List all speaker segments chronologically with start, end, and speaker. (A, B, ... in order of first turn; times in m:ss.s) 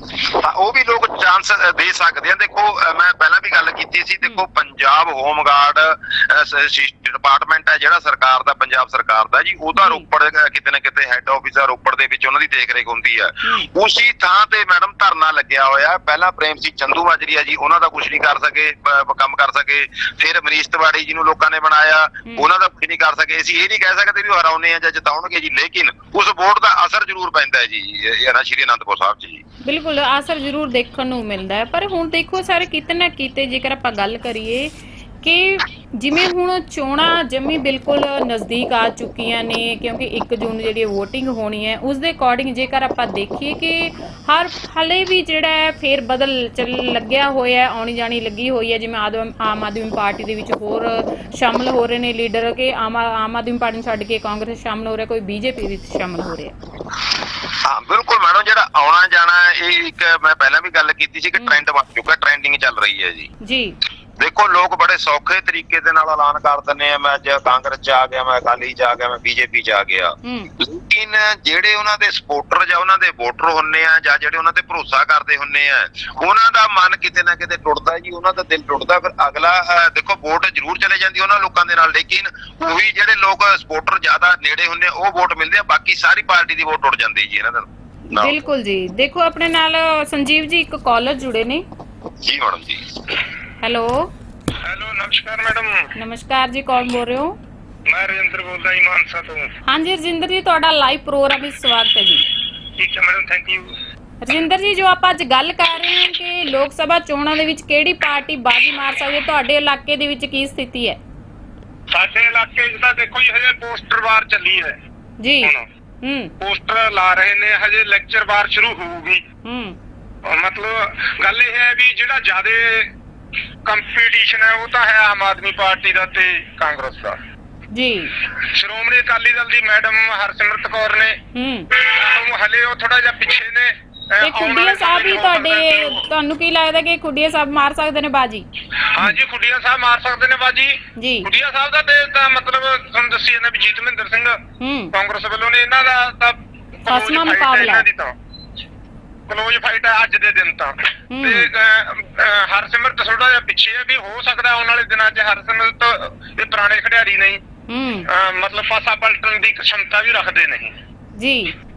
0:00.2-0:29.4 A
0:09.8-0:10.0 B
0:29.6-0:56.5 B
0:57.6-1:03.3 A
1:01.4-1:01.6 B
1:03.4-1:03.8 B
1:04.2-1:28.4 A
1:10.2-1:10.5 B
1:28.1-1:31.6 B
1:32.2-1:32.9 A
1:33.6-1:34.1 B
1:34.6-1:35.9 C
1:36.0-1:37.4 B
1:37.8-1:39.5 C
1:39.6-1:42.2 B
1:42.8-1:43.7 C
1:44.2-1:51.0 B
1:51.9-1:54.8 C
1:55.2-1:56.3 B
1:56.4-1:59.2 C
1:59.4-1:59.8 B
2:00.2-2:02.9 C
2:03.6-2:07.2 C
2:07.7-2:08.1 B
2:08.4-2:11.2 C
2:11.3-2:11.7 B
2:11.7-2:16.0 C
2:14.2-2:18.4 B
2:18.9-2:24.4 C
2:21.0-2:21.3 B
2:24.6-2:24.9 B
2:24.9-2:28.1 C
2:26.9-2:27.8 B
2:29.3-2:37.4 C
2:31.1-2:31.5 B
2:37.7-2:38.1 B
2:38.1-2:40.7 C
2:41.2-2:41.5 B